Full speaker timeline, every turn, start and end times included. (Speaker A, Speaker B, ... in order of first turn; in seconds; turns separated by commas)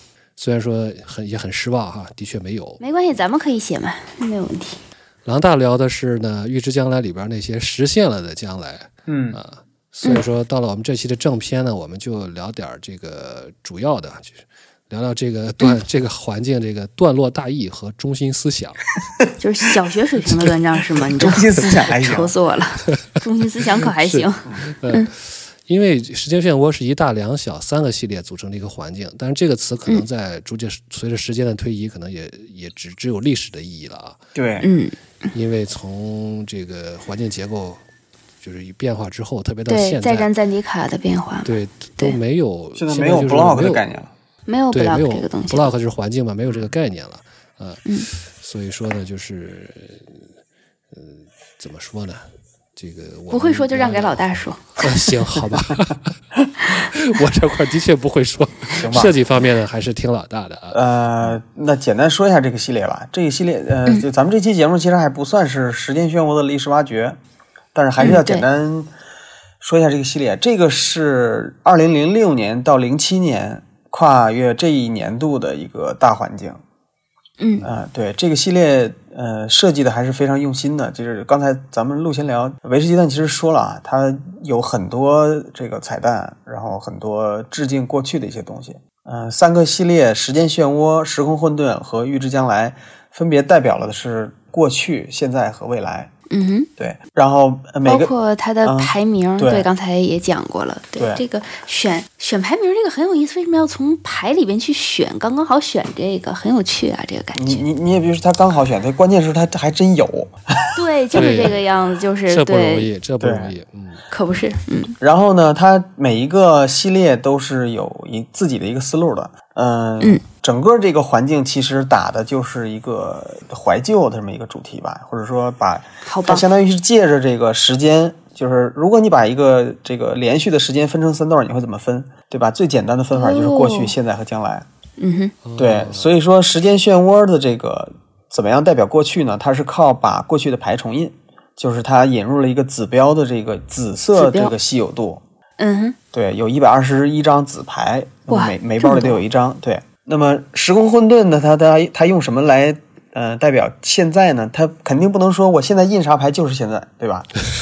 Speaker A: 0.4-2.8, Speaker B: 2.8-4.8, Speaker A: 5.2-18.8, Speaker C: 9.1-9.4, Speaker B: 19.4-25.1, Speaker C: 21.2-22.4, Speaker A: 24.0-25.1, Speaker A: 25.6-34.2, Speaker C: 34.3-34.7, Speaker B: 34.6-35.0, Speaker A: 35.3-37.8, Speaker A: 38.4-40.3, Speaker B: 39.7-42.2, Speaker A: 41.4-43.8, Speaker C: 42.7-44.1, Speaker B: 44.5-45.7, Speaker A: 44.7-50.2, Speaker A: 50.9-52.2, Speaker A: 52.8-54.2, Speaker B: 53.3-54.8, Speaker A: 54.8-61.3, Speaker C: 58.8-59.1, Speaker C: 60.7-67.2, Speaker C: 67.7-68.9, Speaker B: 68.0-68.4, Speaker C: 69.6-76.6, Speaker B: 77.4-77.7, Speaker C: 77.6-96.1, Speaker B: 96.3-96.7, Speaker C: 96.8-98.1, Speaker B: 97.8-107.6, Speaker C: 98.6-99.7, Speaker C: 101.0-101.2, Speaker C: 107.3-110.3, Speaker B: 110.7-112.9, Speaker C: 111.1-111.5, Speaker A: 111.1-111.6, Speaker A: 112.3-114.0, Speaker C: 113.2-113.5, Speaker B: 114.1-115.0, Speaker C: 115.0-134.7, Speaker B: 126.0-126.4, Speaker B: 133.1-133.9, Speaker B: 135.0-135.3, Speaker A: 135.4-136.1, Speaker C: 135.6-145.2, Speaker B: 144.1-144.5, Speaker B: 145.6-145.9, Speaker C: 146.1-157.3, Speaker B: 148.3-149.2